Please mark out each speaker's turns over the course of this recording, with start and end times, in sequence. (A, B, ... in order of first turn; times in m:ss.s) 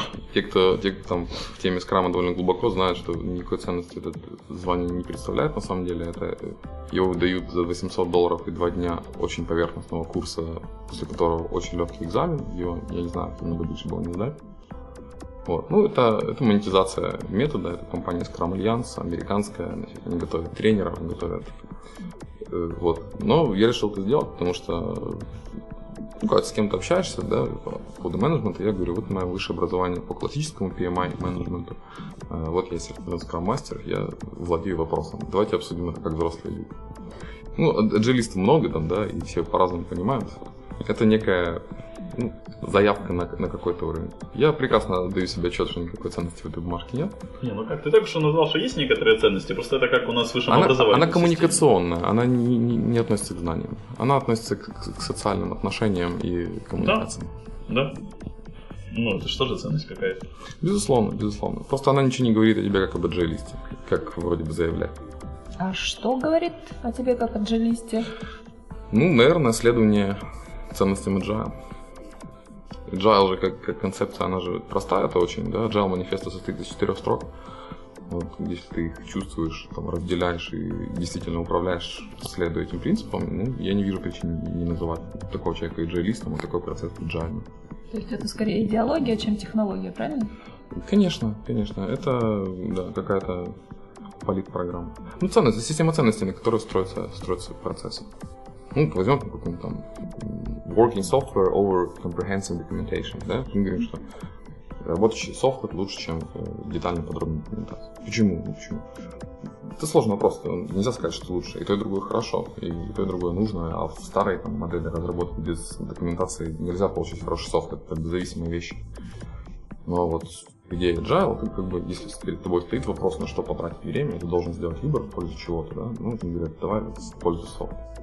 0:00.3-0:14.4 A
0:15.4-0:21.5 A
0:22.4-0:25.3 A
0:26.2-0:36.7 A
0:37.5-0:47.2 A
0:47.4-0:51.6 B
0:50.5-0:57.3 A
0:56.8-0:57.1 B
0:57.7-0:57.9 B
0:58.9-1:00.2 B
1:00.6-1:05.0 A
1:05.6-1:08.1 C
1:08.9-1:10.2 A
1:10.7-1:11.5 A
1:12.9-1:17.3 A
1:18.1-1:27.4 A
1:27.9-1:30.3 C
1:30.7-1:33.6 A
1:34.2-1:38.1 A
1:38.7-1:44.0 A
1:44.8-1:48.8 A
1:49.8-1:58.8 A
1:59.8-2:07.8 A